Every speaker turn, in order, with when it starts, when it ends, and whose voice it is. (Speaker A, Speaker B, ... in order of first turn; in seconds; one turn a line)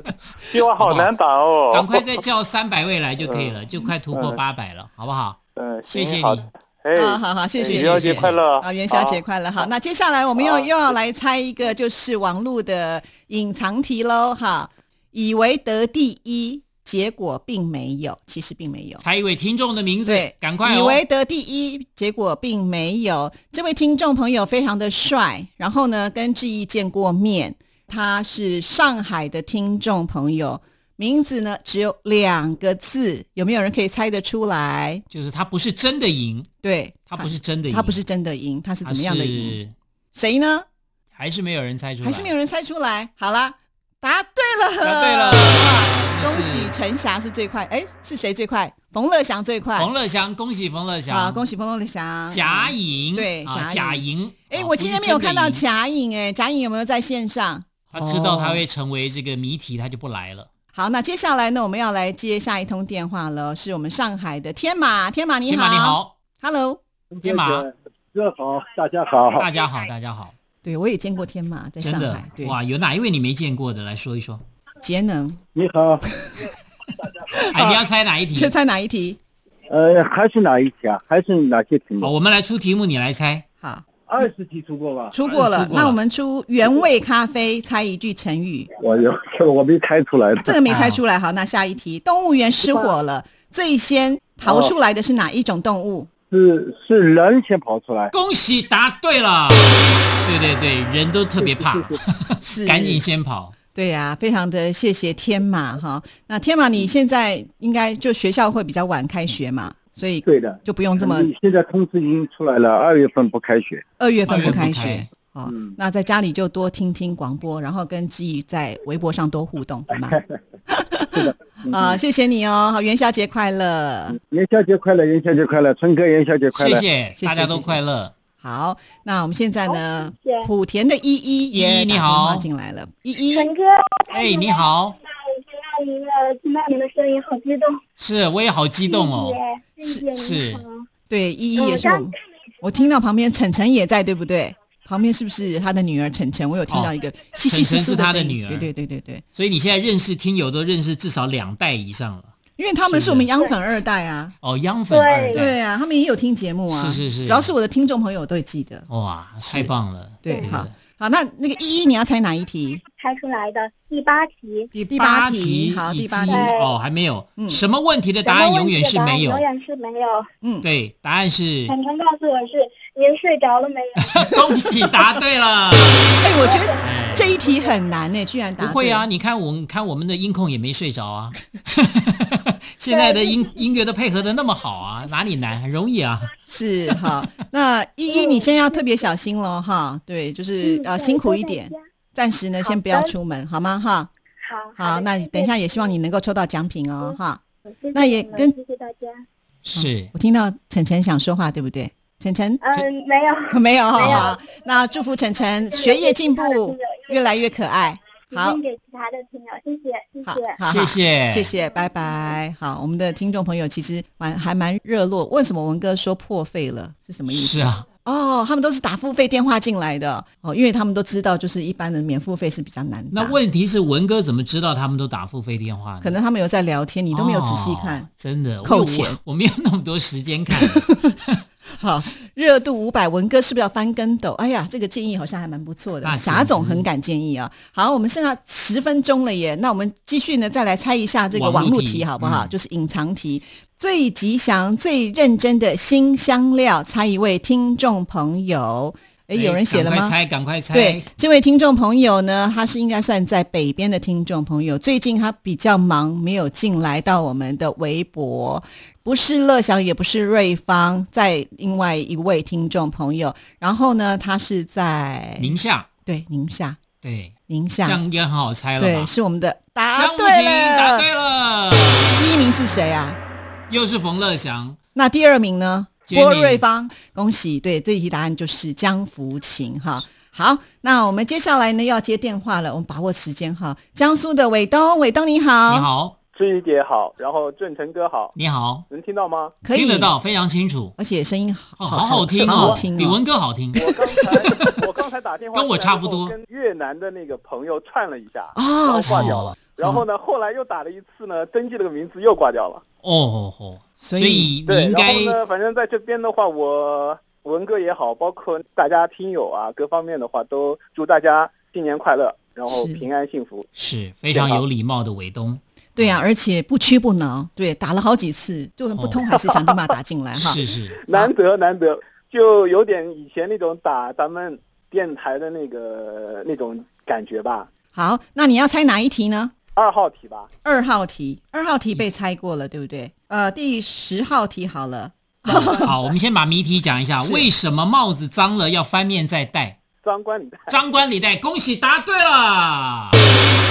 Speaker A: 0.5-2.2
Speaker B: 0.8-1.1
Speaker B: 1.7-5.4
Speaker A: 3.2-3.6
Speaker A: 4.1-4.4
Speaker A: 5.6-9.2
Speaker B: 5.9-6.5
Speaker C: 7.0-19.0
Speaker B: 7.6-8.4
Speaker A: 10.4-10.9
Speaker B: 19.0-21.0
Speaker C: 20.1-35.0
Speaker B: 35.1-36.5
Speaker C: 36.6-39.6
Speaker B: 37.1-38.0
Speaker B: 38.8-39.7
Speaker C: 40.1-40.6
Speaker B: 41.1-42.3
Speaker C: 42.0-49.9
Speaker B: 44.8-46.8
Speaker B: 49.8-51.5
Speaker C: 51.1-58.6
Speaker B: 52.3-55.6
Speaker B: 57.9-60.5
Speaker C: 60.7-66.8
Speaker B: 65.5-66.1
Speaker D: 67.1-69.5
Speaker B: 67.2-67.7
Speaker B: 69.4-70.3
Speaker C: 70.6-72.6
Speaker B: 71.8-74.4
Speaker C: 74.8-75.4
Speaker D: 75.5-76.0
Speaker C: 76.1-76.5
Speaker C: 77.3-79.2
Speaker B: 77.5-78.5
Speaker D: 79.7-82.1
Speaker B: 82.0-83.4
Speaker D: 84.1-85.2
Speaker C: 85.1-88.7
Speaker B: 85.2-86.0
Speaker D: 88.8-90.5
Speaker C: 90.4-96.1
Speaker B: 90.7-91.0
Speaker D: 94.5-94.8
Speaker D: 96.3-98.1
Speaker B: 98.1-103.5
Speaker C: 102.4-103.0
Speaker C: 103.8-111.3
Speaker D: 110.3-113.8
Speaker C: 114.0-120.2
Speaker B: 114.3-115.1
Speaker C: 120.7-124.2
Speaker D: 121.2-122.0
Speaker D: 124.1-126.9
Speaker B: 126.5-128.1
Speaker C: 127.2-127.8
Speaker C: 128.4-133.5
Speaker E: 129.7-130.5
Speaker B: 131.5-132.5
Speaker E: 133.3-137.8
Speaker B: 134.1-135.0
Speaker B: 138.0-140.6
Speaker E: 138.8-140.9
Speaker C: 141.1-149.2
Speaker E: 141.6-142.1
Speaker B: 147.4-148.7
Speaker B: 149.3-152.3
Speaker C: 152.6-154.3
Speaker B: 152.9-153.3
Speaker B: 154.4-155.5
Speaker E: 154.9-155.5
Speaker C: 155.3-158.9
Speaker B: 156.7-157.5
Speaker B: 158.9-160.7
Speaker C: 159.4-159.7
Speaker C: 160.2-162.8
Speaker E: 160.3-160.6
Speaker E: 162.9-164.7
Speaker C: 164.8-166.5
Speaker B: 164.8-169.5
Speaker E: 166.3-166.7
Speaker E: 168.2-170.3
Speaker B: 170.6-171.8
Speaker E: 171.7-174.0
Speaker B: 174.1-176.2
Speaker C: 176.2-179.1
Speaker E: 176.3-177.8
Speaker B: 176.8-177.4
Speaker B: 178.6-186.3
Speaker E: 182.9-183.5
Speaker C: 186.5-194.1
Speaker B: 186.9-187.3
Speaker E: 188.1-188.8
Speaker E: 190.6-191.8
Speaker E: 192.6-193.1
Speaker E: 194.4-195.6
Speaker C: 194.8-197.4
Speaker E: 197.7-199.2
Speaker C: 197.9-198.6
Speaker B: 199.7-200.1
Speaker C: 199.7-202.8
Speaker E: 202.6-204.3
Speaker C: 203.5-208.6
Speaker B: 204.0-204.3
Speaker E: 205.7-207.3
Speaker E: 208.3-210.6
Speaker C: 210.2-223.4
Speaker B: 210.7-211.5
Speaker B: 217.3-217.9
Speaker B: 223.1-226.2
Speaker C: 226.0-228.1
Speaker B: 227.1-231.4
Speaker C: 228.6-229.2
Speaker C: 230.8-231.1
Speaker C: 231.8-250.2
Speaker B: 236.0-236.9
Speaker B: 241.3-242.5
Speaker B: 249.3-251.1
Speaker C: 250.7-266.8
Speaker B: 265.4-265.9
Speaker B: 267.0-269.1
Speaker C: 267.5-268.0
Speaker C: 268.8-271.1
Speaker B: 269.9-272.3
Speaker C: 272.2-273.2
Speaker B: 273.7-274.8
Speaker C: 274.9-285.9
Speaker B: 276.1-276.6
Speaker B: 285.7-286.1
Speaker F: 286.4-288.4
Speaker B: 288.4-288.9
Speaker F: 288.9-289.6
Speaker C: 289.6-290.1
Speaker B: 289.7-290.9
Speaker C: 291.0-293.2
Speaker B: 291.8-294.7
Speaker F: 292.4-292.8
Speaker F: 293.7-302.8
Speaker B: 295.6-296.4
Speaker C: 298.6-300.1
Speaker B: 299.1-299.6
Speaker B: 303.0-305.4
Speaker C: 304.0-304.5
Speaker F: 304.7-313.7
Speaker C: 312.7-313.1
Speaker B: 313.8-316.2
Speaker F: 314.3-314.6
Speaker C: 316.0-321.3
Speaker B: 318.9-319.3
Speaker F: 319.3-319.9
Speaker B: 320.4-321.0
Speaker F: 321.1-327.7
Speaker C: 327.9-329.5
Speaker F: 329.8-330.5
Speaker C: 330.6-335.9
Speaker B: 335.5-339.8
Speaker C: 337.2-337.5
Speaker F: 340.0-340.9
Speaker B: 340.7-343.2